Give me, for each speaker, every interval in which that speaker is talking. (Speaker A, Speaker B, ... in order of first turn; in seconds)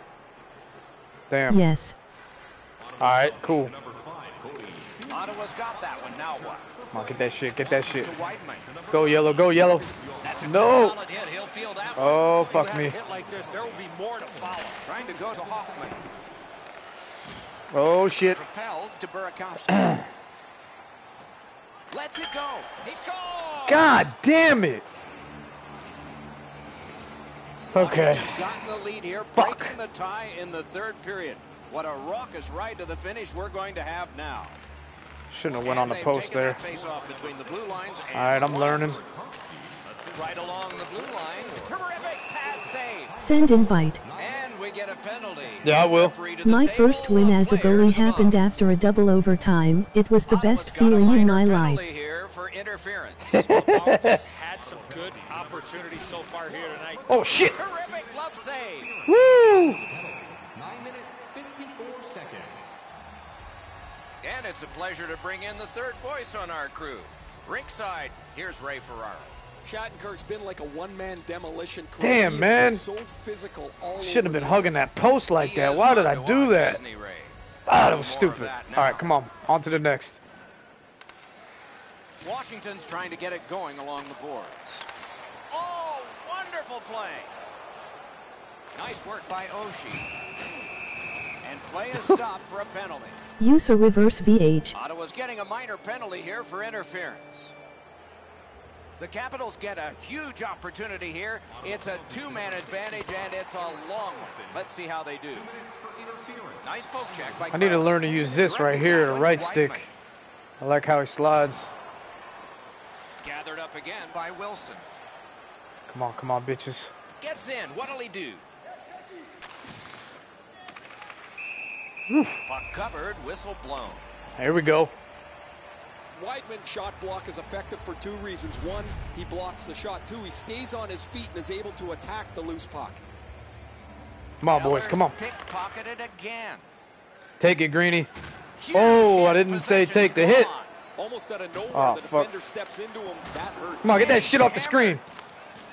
Speaker A: 1.3-1.6, 3.0-3.7, 6.9-8.1, 8.9-9.9, 10.4-11.0, 12.0-13.0, 17.7-18.4, 23.7-24.8, 27.7-28.4, 29.4-29.7, 35.3-36.6, 38.1-39.0, 45.6-46.1, 53.5-54.1, 57.1-57.5, 59.1-59.8, 72.0-72.8, 74.0-76.8, 77.7-80.2, 107.5-109.9, 110.6-111.7, 115.9-116.9, 122.1-122.4, 124.4-124.9, 134.4-135.1, 137.4-138.1, 138.7-140.5, 141.7-142.3, 143.8-145.0
Speaker B: 1.5-1.9, 43.2-44.0, 46.4-51.8, 93.4-94.7
Speaker C: 2.8-11.6, 13.1-16.1, 35.7-45.8, 47.7-48.7, 54.5-62.8, 101.5-104.7, 105.3-108.4
Speaker D: 5.1-6.7, 7.9-8.7, 10.2-12.3, 14.8-16.0, 18.3-19.8, 21.9-24.1, 27.7-34.6, 35.5-39.0, 40.1-43.1, 44.1-48.6, 50.2-53.5, 57.4-58.9, 64.2-69.3, 75.3-79.0, 82.2-84.9, 85.5-87.3, 88.7-90.1, 91.4-93.2, 94.7-97.5, 99.0-105.5, 106.6-109.9, 113.2-114.8, 117.2-118.4, 122.5-124.0, 134.5-136.7, 138.6-140.7, 143.8-145.0
Speaker E: 12.4-14.8, 53.4-57.2
Speaker F: 69.6-74.8, 126.1-133.0, 140.9-144.2